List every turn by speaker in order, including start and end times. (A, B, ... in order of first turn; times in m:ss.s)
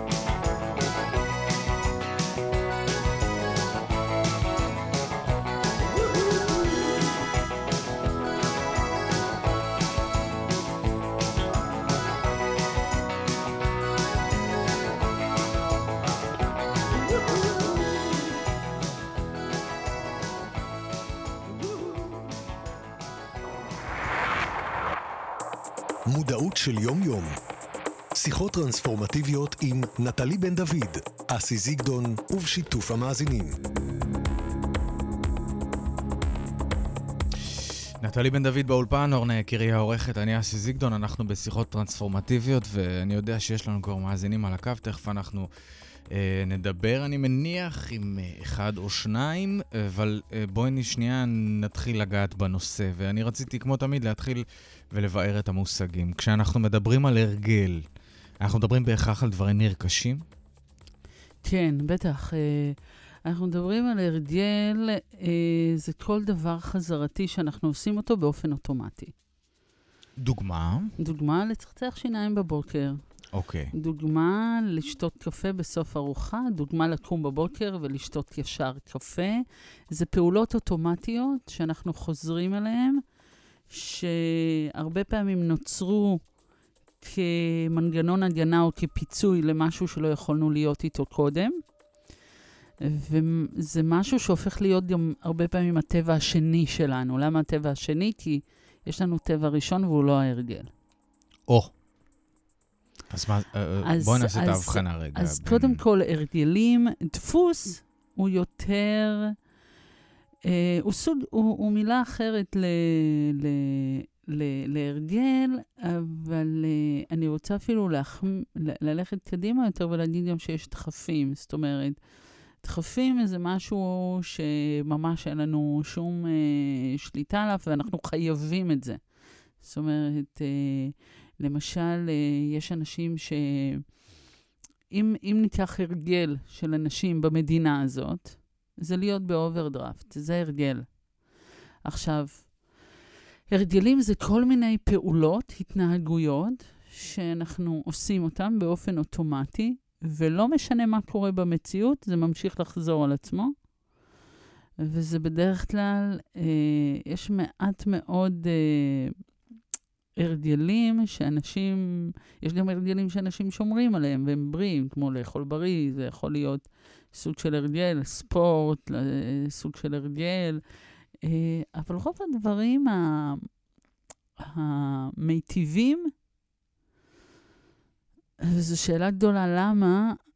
0:26.1-0:27.4 A
0:28.2-0:33.6 A
0:38.0-0:45.5 B
0:46.1-0:57.8 B
0:58.4-1:00.2 B
1:01.4-1:09.1 C
1:10.2-1:10.9 B
1:11.0-1:13.0 C
1:13.3-1:13.7 B
1:13.8-1:23.0 C
1:23.7-1:26.2 C
1:27.0-1:31.6 C
1:32.8-1:40.7 C
1:43.1-1:45.8 B
1:43.9-1:49.3 C
1:50.4-2:02.0 C
2:02.6-2:09.0 C
2:09.6-2:13.8 C
2:14.9-2:20.9 C
2:21.8-2:22.5 C
2:23.5-2:33.5 C
2:34.8-2:39.2 C
2:40.2-2:50.6 C
2:51.2-2:53.5 C
2:54.4-2:56.1 C
2:58.4-3:00.0 C